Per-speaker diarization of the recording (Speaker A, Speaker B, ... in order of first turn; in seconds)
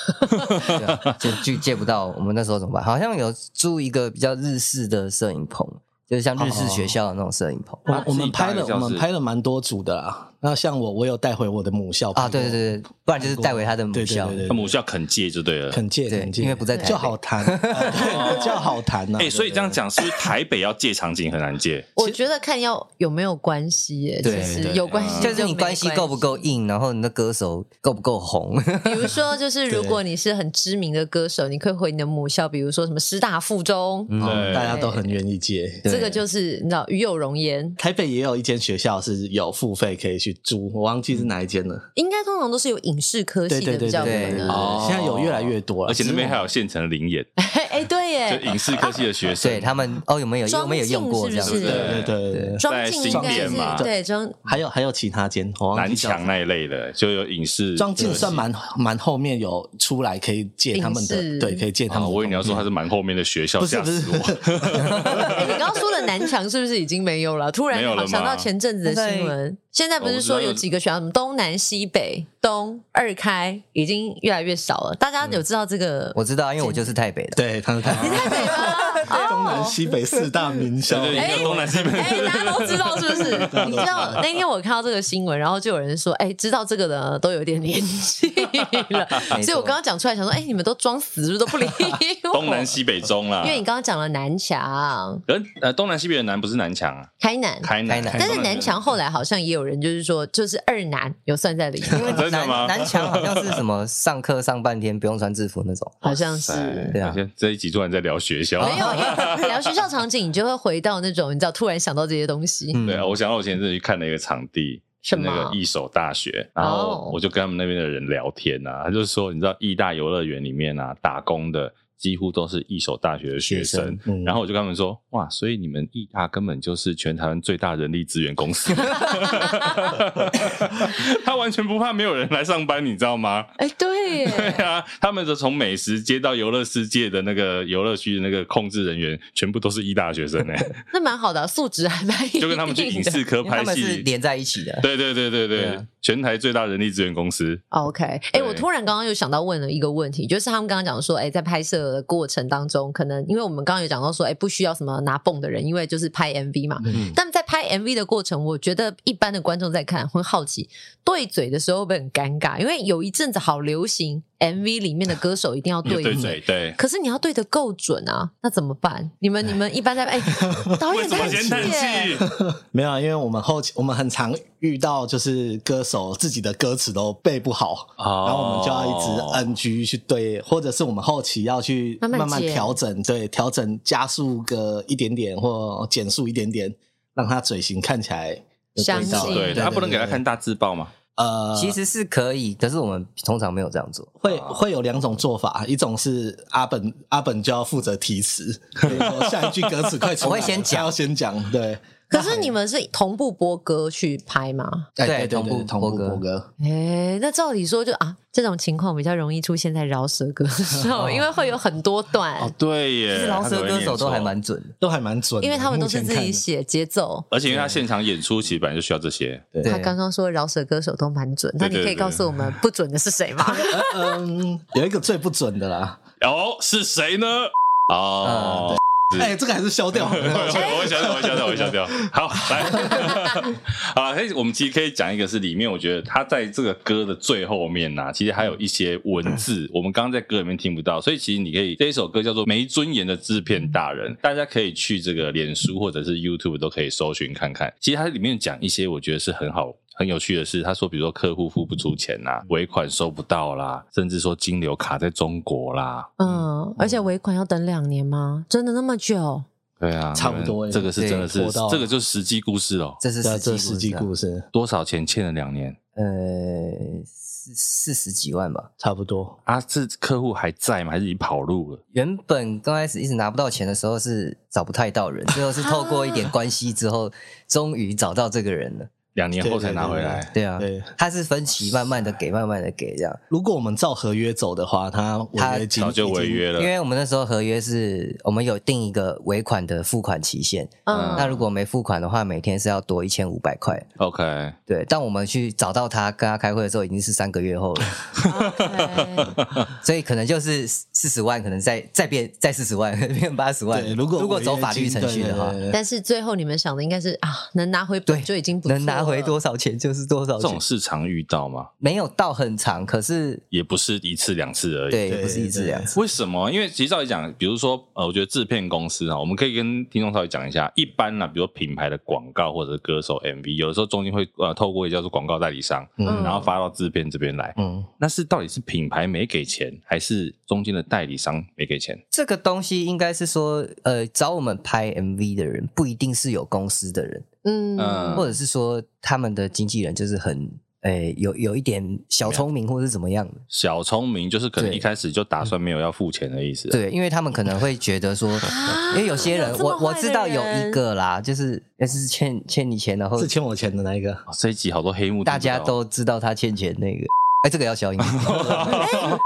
Speaker A: 0.3-1.2, 7.9-9.1, 14.5-15.8, 18.0-18.5, 19.2-21.9, 24.9-25.4, 34.2-34.8, 44.5-47.3, 48.3-49.8, 51.4-53.9, 55.8-58.4, 61.9-65.6, 67.7-68.5, 70.0-70.6, 80.9-84.2, 92.3-93.6, 95.3-97.1, 97.6-98.8, 102.0-103.6, 106.1-109.6, 112.8-133.5, 134.2-140.8, 142.4-144.1, 144.8-147.6, 148.3-148.7, 165.8-166.8, 170.8-172.2, 178.0-179.5, 188.9-190.9, 194.3-194.6, 212.4-214.3, 217.3-219.5, 221.6-222.4, 226.2-229.3, 229.9-256.2, 259.8-263.0, 264.5-265.8, 269.5-271.8, 279.1-280.3, 285.8-286.7, 290.9-291.4, 294.0-294.6, 298.4-299.7, 310.4-311.7, 313.5-315.1, 315.9-332.0, 337.8-338.3, 343.5-346.8, 354.3-355.8, 358.0-359.2
Speaker B: 0.5-7.9, 12.2-14.5, 16.1-18.0, 24.2-24.6, 25.2-29.2, 34.1-34.6, 35.9-36.2, 44.0-44.6, 49.4-52.6, 68.8-69.3, 76.2-77.4, 78.5-79.1, 89.3-89.8, 97.9-98.5, 101.9-106.0, 106.9-107.2, 108.6-109.5, 112.7-113.1, 123.4-124.0, 143.4-144.9, 145.5-145.8, 189.2-190.2, 191.6-194.2, 200.2-200.9, 205.0-206.2, 213.1-214.8, 219.6-219.9, 228.2-228.8, 263.0-264.1, 266.0-268.7, 271.9-278.9, 280.3-283.2, 285.4-285.8, 286.5-293.9, 294.7-298.0, 299.8-305.6, 308.1-310.6, 311.8-313.4, 314.9-316.0, 332.1-337.3, 338.1-343.4, 344.6-344.9, 346.7-353.3, 355.2-358.8
Speaker C: 6.4-7.0, 7.9-14.7, 15.7-19.8, 24.2-24.9, 29.7-30.0, 34.2-35.9, 37.8-41.9, 43.5-46.4, 51.6-56.3, 57.8-62.6, 63.6-65.6, 77.3-81.5, 83.5-84.2, 124.0-124.4, 156.8-157.2, 170.4-190.2, 191.2-191.8, 194.2-202.5, 205.0-206.5, 210.9-211.2, 214.8-216.4, 223.5-226.0, 229.1-231.8, 260.1-261.9, 263.2-264.5, 268.8-269.4, 279.4-280.9, 283.3-286.4, 303.7-305.8, 315.1-315.9, 326.0-326.4, 327.6-327.9, 353.2-354.2
Speaker D: 16.7-17.0, 22.0-26.5, 28.8-35.2, 35.9-37.8, 42.0-44.6, 47.4-49.1, 50.5-52.0, 52.6-54.4, 60.7-61.6, 65.2-76.9, 78.0-80.2, 81.1-92.8, 93.4-95.2, 97.2-102.3, 106.0-107.0, 108.6-112.8, 115.0-115.6, 116.6-117.2, 133.6-134.6, 140.9-143.2, 147.7-172.2, 182.0-182.8, 188.8-189.7, 202.1-204.9, 206.6-212.5, 215.4-217.3, 219.6-224.2, 256.2-259.5, 275.6-276.3, 290.9-291.4, 298.3-299.3, 305.7-309.4, 326.1-326.5, 337.4-338.3, 348.4-350.8